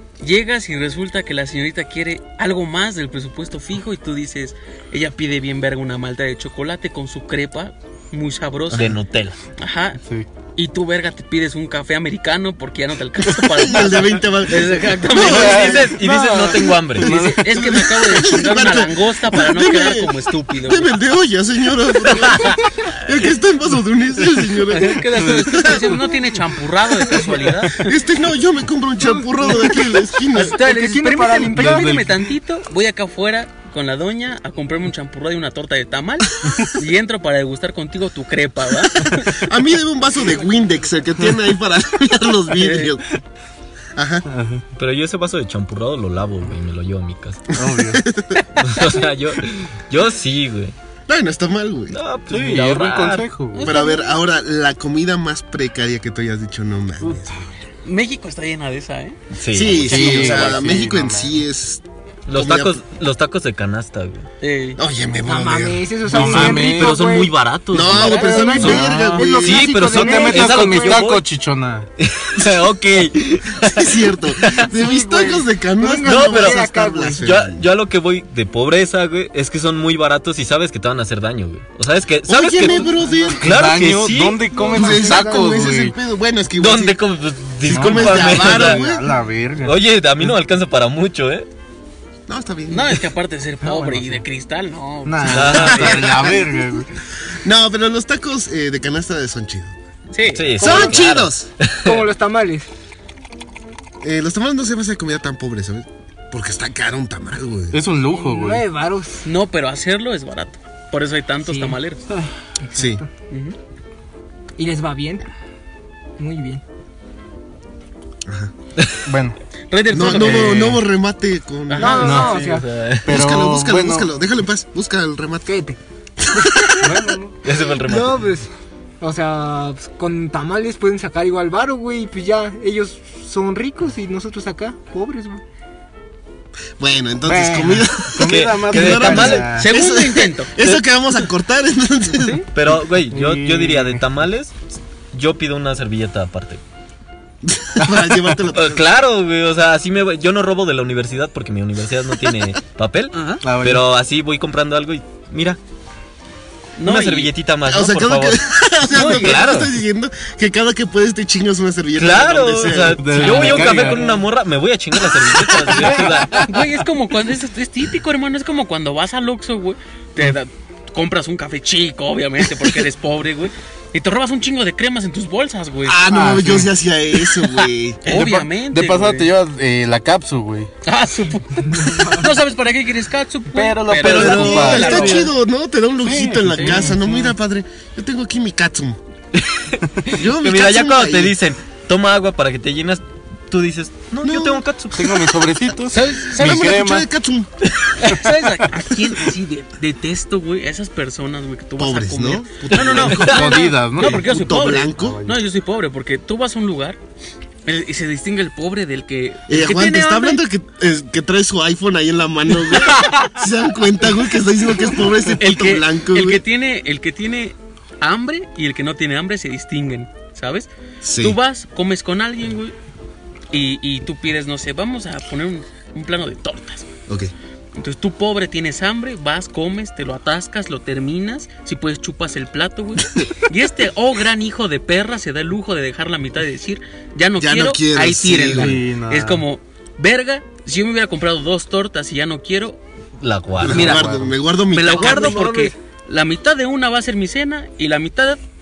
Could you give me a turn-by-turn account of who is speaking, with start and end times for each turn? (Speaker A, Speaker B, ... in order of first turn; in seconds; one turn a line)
Speaker A: 0.2-8.9
Speaker B: 8.7-9.4
Speaker A: 9.6-10.0
Speaker A: 10.6-20.9
Speaker C: 13.3-16.0
Speaker B: 15.1-17.4
Speaker D: 15.2-15.8
Speaker C: 17.0-26.0
Speaker B: 22.2-22.5
Speaker A: 24.7-28.0
Speaker D: 25.2-25.7
Speaker C: 27.7-30.6
Speaker A: 30.3-39.5
Speaker E: 30.3-32.0
Speaker D: 31.5-32.2
Speaker C: 39.3-43.0
Speaker A: 42.5-42.9
Speaker C: 44.0-44.3
Speaker D: 44.3-44.6
Speaker B: 44.7-47.5
Speaker D: 47.5-48.0
Speaker C: 47.6-48.5
Speaker B: 48.6-50.7
Speaker C: 51.1-52.0
Speaker B: 51.9-53.3
Speaker D: 52.3-53.7
Speaker A: 53.5-54.1
Speaker C: 53.6-57.5
Speaker A: 57.8-59.2
Speaker B: 59.3-60.7
Speaker C: 59.5-62.8
Speaker D: 59.8-61.4
Speaker A: 59.9-60.6
Speaker B: 62.3-64.3
Speaker A: 64.4-64.8
Speaker C: 64.8-65.9
Speaker E: 65.2-67.3
Speaker D: 66.1-67.0
Speaker B: 66.1-71.2
Speaker C: 67.7-69.7
Speaker A: 67.8-68.6
Speaker E: 68.0-71.1
Speaker D: 68.6-71.9
Speaker B: 72.0-74.7
Speaker C: 73.6-77.7
Speaker E: 74.7-77.3
Speaker B: 76.0-76.6
Speaker B: 77.2-84.5
Speaker C: 82.2-83.7
Speaker E: 82.8-83.4
Speaker D: 83.4-86.0
Speaker E: 84.5-85.5
Speaker C: 84.7-87.0
Speaker B: 86.5-88.9
Speaker C: 87.6-89.1
Speaker D: 87.6-90.3
Speaker B: 89.6-91.5
Speaker C: 92.3-93.0
Speaker A: 92.7-96.1
Speaker D: 93.6-94.2
Speaker D: 95.0-96.9
Speaker B: 95.2-96.3
Speaker C: 95.5-96.4
Speaker C: 97.3-99.8
Speaker A: 100.1-101.0
Speaker B: 100.3-102.0
Speaker C: 100.6-101.5
Speaker E: 100.6-101.0
Speaker E: 101.8-102.7
Speaker C: 104.0-107.8
Speaker D: 107.7-108.6
Speaker E: 108.1-109.2
Speaker A: 109.2-112.0
Speaker E: 111.4-111.8
Speaker E: 112.6-113.1
Speaker C: 112.7-113.0
Speaker A: 113.3-113.5
Speaker E: 114.6-115.2
Speaker E: 116.2-116.6
Speaker C: 118.3-118.5
Speaker B: 118.8-119.0
Speaker D: 119.0-119.4
Speaker A: 119.7-120.8
Speaker C: 119.9-122.2
Speaker D: 120.0-120.8
Speaker A: 121.7-122.3
Speaker E: 121.8-122.7
Speaker D: 122.0-122.4
Speaker B: 122.0-123.2
Speaker D: 123.0-124.1
Speaker C: 123.1-125.5
Speaker E: 125.5-125.8
Speaker C: 126.3-126.8
Speaker E: 126.3-127.1
Speaker D: 126.8-127.4
Speaker B: 127.4-128.3
Speaker E: 127.8-128.5
Speaker E: 129.0-135.4
Speaker C: 136.8-142.4
Speaker D: 137.2-139.7
Speaker B: 138.2-139.6
Speaker A: 139.4-140.5
Speaker A: 142.2-142.4
Speaker B: 142.5-144.6
Speaker D: 142.8-144.0
Speaker B: 145.1-146.6
Speaker C: 147.4-148.9
Speaker B: 148.5-155.6
Speaker A: 153.1-153.4
Speaker D: 153.4-153.8
Speaker A: 156.8-157.3
Speaker B: 156.8-159.7
Speaker C: 157.7-163.7
Speaker A: 158.9-159.5
Speaker B: 162.0-166.6
Speaker D: 163.0-164.1
Speaker A: 163.1-164.2
Speaker A: 165.6-176.0
Speaker D: 165.7-166.5
Speaker C: 175.9-178.0
Speaker D: 176.1-176.7
Speaker A: 178.0-179.3
Speaker D: 178.1-180.7
Speaker A: 180.8-185.3
Speaker E: 181.7-182.4
Speaker D: 183.5-185.3
Speaker B: 183.9-185.2
Speaker C: 184.0-189.0
Speaker D: 186.0-187.3
Speaker A: 186.6-186.9
Speaker B: 189.3-195.4
Speaker C: 190.1-191.4
Speaker C: 194.2-194.7
Speaker D: 194.9-197.1
Speaker A: 195.9-196.7
Speaker C: 196.4-197.5
Speaker A: 198.0-207.0
Speaker C: 201.8-205.2
Speaker B: 202.7-203.6
Speaker D: 203.2-204.3
Speaker D: 204.9-205.4
Speaker A: 207.7-210.4
Speaker C: 209.5-216.4
Speaker A: 212.7-213.3
Speaker A: 215.4-222.7
Speaker C: 221.0-221.4
Speaker A: 223.5-226.9
Speaker A: 227.8-242.8
Speaker C: 237.4-238.8
Speaker D: 238.5-239.4
Speaker B: 243.2-244.0
Speaker C: 243.6-245.4
Speaker D: 243.7-244.3
Speaker A: 243.7-244.1
Speaker A: 244.7-248.4
Speaker E: 245.1-245.7